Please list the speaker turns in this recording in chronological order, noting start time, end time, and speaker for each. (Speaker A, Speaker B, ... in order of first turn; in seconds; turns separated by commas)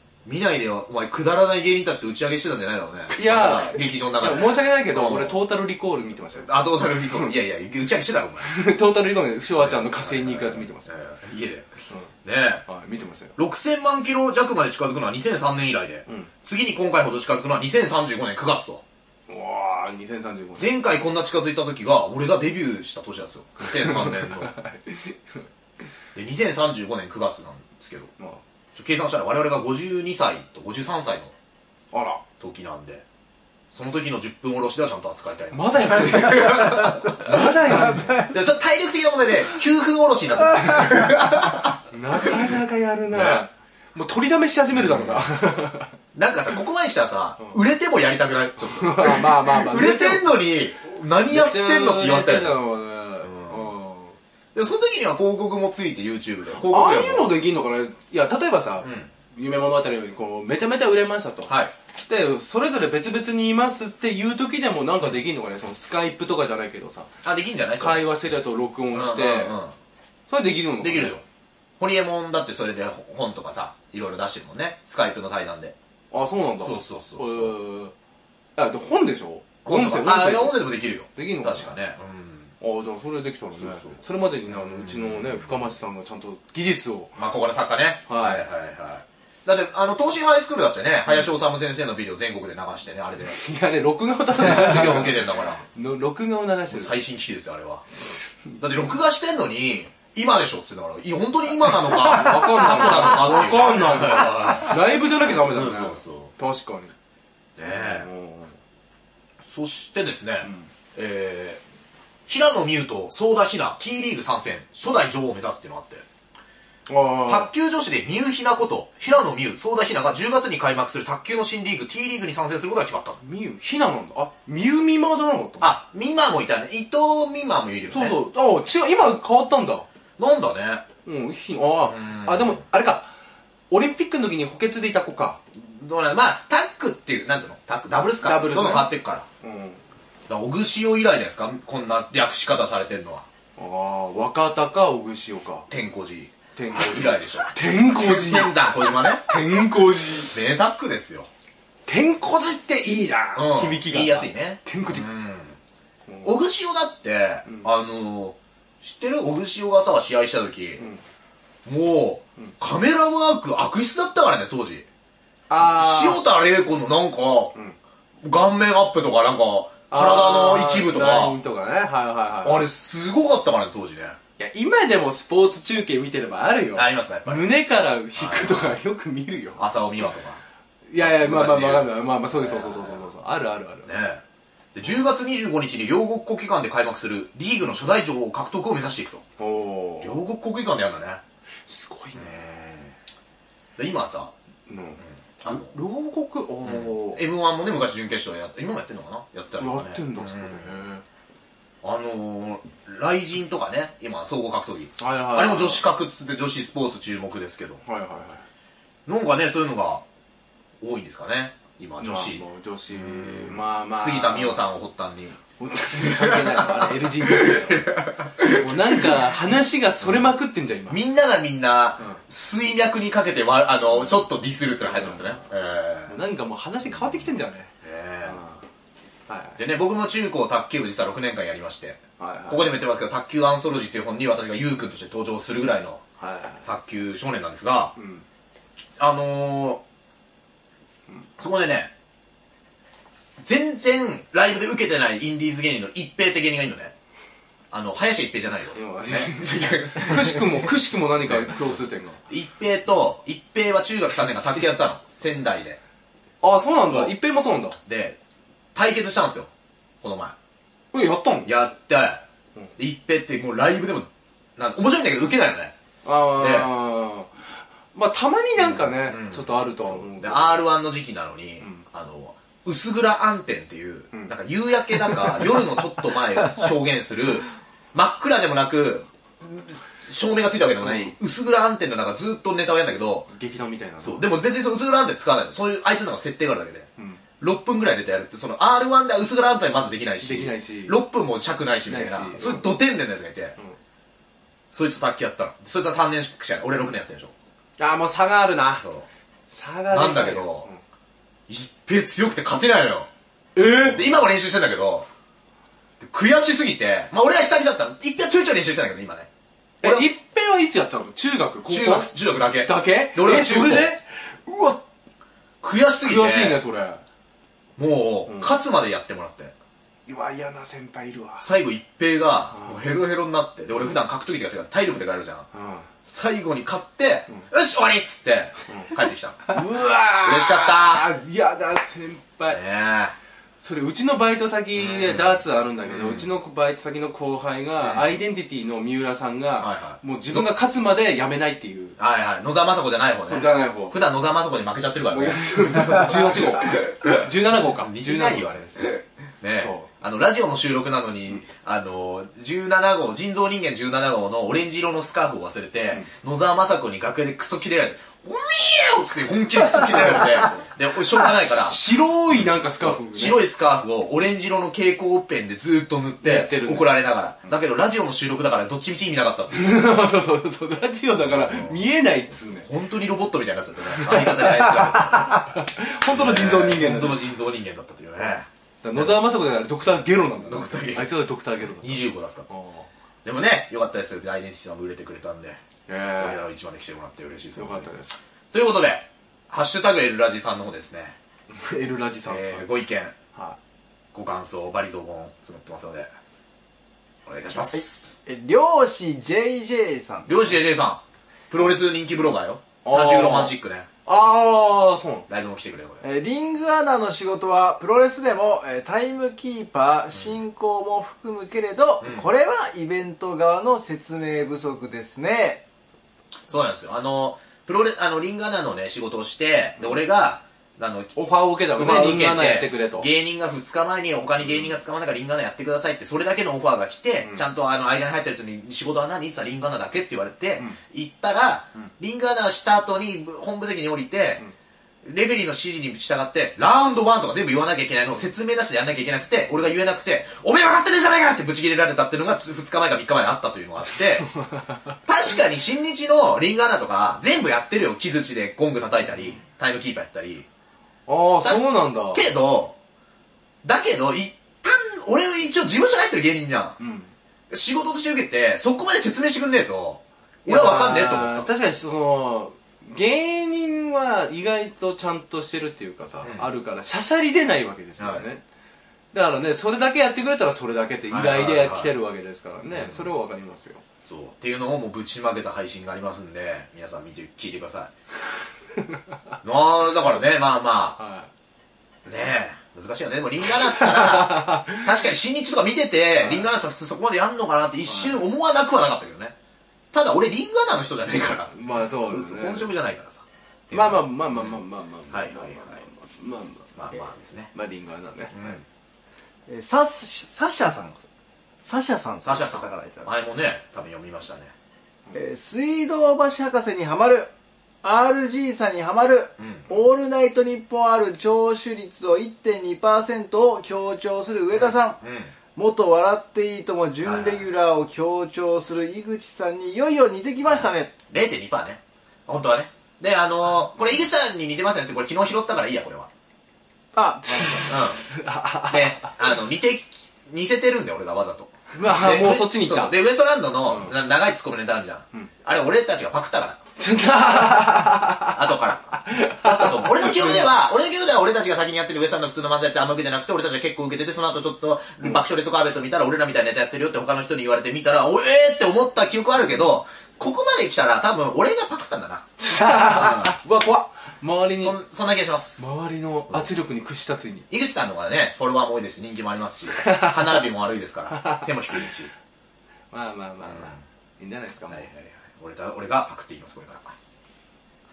Speaker A: 0.2-5.4, Speaker B: 3.1-7.3, Speaker A: 6.5-8.5, Speaker B: 8.4-10.9, Speaker A: 9.6-12.6, Speaker B: 12.6-13.4, Speaker A: 13.4-18.8, Speaker B: 19.3-20.8, Speaker A: 20.6-24.5, Speaker B: 23.6-25.4, Speaker A: 26.1-28.1, Speaker A: 28.7-31.3, Speaker B: 31.9-32.2, Speaker A: 32.4-33.0, Speaker A: 33.7-42.5, Speaker B: 35.5-38.3, Speaker B: 41.9-45.9, Speaker A: 43.1-43.5, Speaker A: 44.7-45.3, Speaker A: 46.1-52.6, Speaker B: 48.6-50.3, Speaker B: 51.3-54.2, Speaker A: 53.2-53.7, Speaker A: 54.5-57.3, Speaker B: 56.6-67.1, Speaker A: 58.8-59.1, Speaker A: 61.5-61.7, Speaker A: 67.2-68.1, Speaker B: 67.8-69.5, Speaker A: 68.9-69.7, Speaker B: 70.3-71.2, Speaker A: 70.8-71.2, Speaker A: 71.8-75.8, Speaker B: 76.1-77.9, Speaker A: 76.6-77.5, Speaker B: 78.6-81.7, Speaker A: 79.6-82.5, Speaker B: 82.6-87.2, Speaker A: 83.6-83.9, Speaker A: 84.5-85.4, Speaker A: 87.2-93.4, Speaker B: 88.1-88.4, Speaker B: 93.3-97.0, Speaker A: 94.4-95.6, Speaker A: 96.7-97.9, Speaker A: 98.6-106.3, Speaker B: 101.9-106.9, Speaker A: 107.6-108.1, Speaker B: 107.7-108.5, Speaker A: 109.4-111.6, Speaker A: 112.3-116.0, Speaker B: 116.9-117.5, Speaker A: 117.3-123.2, Speaker B: 123.2-125.7, Speaker A: 125.6-128.2, Speaker B: 127.9-129.9, Speaker A: 130.2-130.9, Speaker B: 131.1-133.1, Speaker A: 131.9-132.6, Speaker B: 133.7-135.4, Speaker A: 135.5-139.3, Speaker B: 138.2-139.8, Speaker A: 140.3-143.3, Speaker B: 143.6-145.7, Speaker A: 145.7-149.4, Speaker B: 146.6-150.3, Speaker A: 150.3-151.3, Speaker B: 151.9-155.1, Speaker A: 153.4-155.6, Speaker B: 156.1-156.3, Speaker A: 156.2-160.8, Speaker A: 161.6-164.9, Speaker B: 165.5-166.2, Speaker A: 165.6-167.5, Speaker A: 168.2-171.4, Speaker B: 169.9-172.7, Speaker A: 172.4-174.2, Speaker B: 174.4-179.6, Speaker A: 176.7-177.5, Speaker A: 178.2-178.7, Speaker A: 179.6-180.4, Speaker B: 180.9-183.9, Speaker A: 181.0-183.1, Speaker A: 183.9-184.2, Speaker A: 184.7-189.2, Speaker B: 189.4-190.2, Speaker A: 190.0-191.2, Speaker B: 191.7-192.9, Speaker A: 193.8-194.3, Speaker B: 194.7-197.2, Speaker A: 195.4-195.7, Speaker A: 196.6-200.8, Speaker B: 199.6-201.0, Speaker A: 201.8-207.8, Speaker B: 205.0-205.8, Speaker B: 207.8-208.4, Speaker A: 209.1-210.0, Speaker A: 210.8-215.4, Speaker B: 212.0-214.6, Speaker B: 215.6-221.0, Speaker A: 215.9-219.2, Speaker A: 220.9-226.2, Speaker B: 224.8-225.4, Speaker B: 226.1-227.7, Speaker A: 227.8-228.4, Speaker B: 228.2-228.6, Speaker B: 229.3-229.6, Speaker A: 229.6-236.0, Speaker B: 232.2-232.7, Speaker B: 236.2-236.7, Speaker A: 236.6-237.9, Speaker B: 238.0-238.2, Speaker A: 239.0-239.8, Speaker A: 241.4-241.9, Speaker A: 243.4-246.9, Speaker A: 247.7-250.7, Speaker B: 248.7-252.2, Speaker A: 251.2-251.7, Speaker A: 252.3-255.8, Speaker B: 256.4-257.8, Speaker A: 257.9-258.2, Speaker A: 258.8-259.5, Speaker A: 260.0-260.4, Speaker B: 260.9-261.5, Speaker A: 261.4-262.2, Speaker A: 262.8-265.8, Speaker B: 266.0-270.6, Speaker A: 266.4-266.7, Speaker A: 268.6-283.3, Speaker B: 271.6-271.9, Speaker B: 280.8-281.1, Speaker B: 283.3-284.3, Speaker A: 284.0-293.6, Speaker B: 287.0-287.2, Speaker B: 290.2-291.0, Speaker B: 291.9-292.7, Speaker A: 294.7-297.3, Speaker B: 297.8-298.9, Speaker A: 298.8-299.1, Speaker B: 299.5-300.8, Speaker A: 299.9-300.7, Speaker A: 301.5-303.1, Speaker B: 303.6-304.3, Speaker A: 303.6-305.1, Speaker A: 306.0-309.3, Speaker A: 309.8-310.1, Speaker B: 309.8-314.8, Speaker A: 311.6-313.9, Speaker A: 315.6-316.6, Speaker B: 316.0-317.0, Speaker A: 317.8-319.5, Speaker B: 318.3-318.5, Speaker B: 320.1-321.5, Speaker A: 321.4-325.5, Speaker B: 322.5-322.9, Speaker B: 325.5-325.9, Speaker A: 326.1-329.6, Speaker B: 328.7-332.6, Speaker A: 330.2-331.1, Speaker A: 332.5-333.1, Speaker B: 333.6-342.0, Speaker A: 334.8-336.3, Speaker A: 337.8-338.2, Speaker A: 339.6-340.5, Speaker A: 342.0-361.8, Speaker B: 343.3-344.0, Speaker B: 345.1-348.9, Speaker B: 349.6-349.9, Speaker B: 359.9-360.6, Speaker B: 361.2-363.4, Speaker A: 362.3-370.0, Speaker B: 366.2-366.9, Speaker B: 369.5-372.7, Speaker A: 371.2-371.8, Speaker A: 372.6-379.2, Speaker B: 373.9-377.3, Speaker B: 378.8-382.9, Speaker A: 380.4-381.1, Speaker A: 381.8-382.5, Speaker A: 383.2-385.6, Speaker B: 385.9-386.4, Speaker A: 386.2-387.9, Speaker B: 387.6-388.2, Speaker A: 388.5-391.1, Speaker B: 391.5-392.7, Speaker A: 392.3-393.1, Speaker A: 394.1-396.1, Speaker A: 397.3-398.1, Speaker C: 397.7-400.4, Speaker A: 400.3-403.9, Speaker B: 402.8-405.3, Speaker A: 405.3-406.0, Speaker C: 406.0-415.6, Speaker A: 412.0-412.3, Speaker A: 416.5-421.2, Speaker B: 421.1-423.1, Speaker A: 421.7-434.4, Speaker A: 435.0-444.3, Speaker A: 445.1-450.5, Speaker B: 451.1-452.3, Speaker A: 451.4-452.8, Speaker A: 453.6-456.8, Speaker B: 456.8-457.1, Speaker A: 457.5-461.5, Speaker B: 460.5-468.4, Speaker A: 466.2-466.5, Speaker A: 468.0-468.2, Speaker B: 469.1-473.8, Speaker A: 471.1-471.9, Speaker A: 472.7-473.1, Speaker A: 474.1-477.9, Speaker A: 479.4-481.0, Speaker B: 481.0-481.3, Speaker A: 482.1-489.4, Speaker B: 483.5-484.9, Speaker B: 486.2-486.5, Speaker B: 487.9-488.2, Speaker A: 489.9-494.5, Speaker B: 491.5-492.7, Speaker B: 493.7-496.9, Speaker A: 495.1-495.8, Speaker A: 496.8-497.5, Speaker B: 497.5-498.6, Speaker A: 498.3-498.6, Speaker C: 499.5-501.0, Speaker C: 501.6-503.1, Speaker A: 502.2-504.5, Speaker C: 505.1-507.3, Speaker C: 507.8-515.0, Speaker A: 509.4-509.7, Speaker A: 514.5-515.3, Speaker C: 515.5-520.9, Speaker A: 517.0-517.5, Speaker A: 520.5-526.1, Speaker C: 526.9-527.8, Speaker B: 527.2-529.2, Speaker A: 527.7-528.0, Speaker A: 528.6-536.6, Speaker B: 531.7-533.0, Speaker B: 533.6-534.0, Speaker B: 536.8-538.4, Speaker A: 538.2-553.4, Speaker B: 538.9-540.4, Speaker B: 552.4-554.8, Speaker A: 554.6-555.6, Speaker B: 555.6-557.5, Speaker A: 557.5-562.1, Speaker B: 559.7-560.4, Speaker B: 561.1-561.4, Speaker B: 562.9-564.9, Speaker A: 563.4-563.8, Speaker A: 564.7-566.9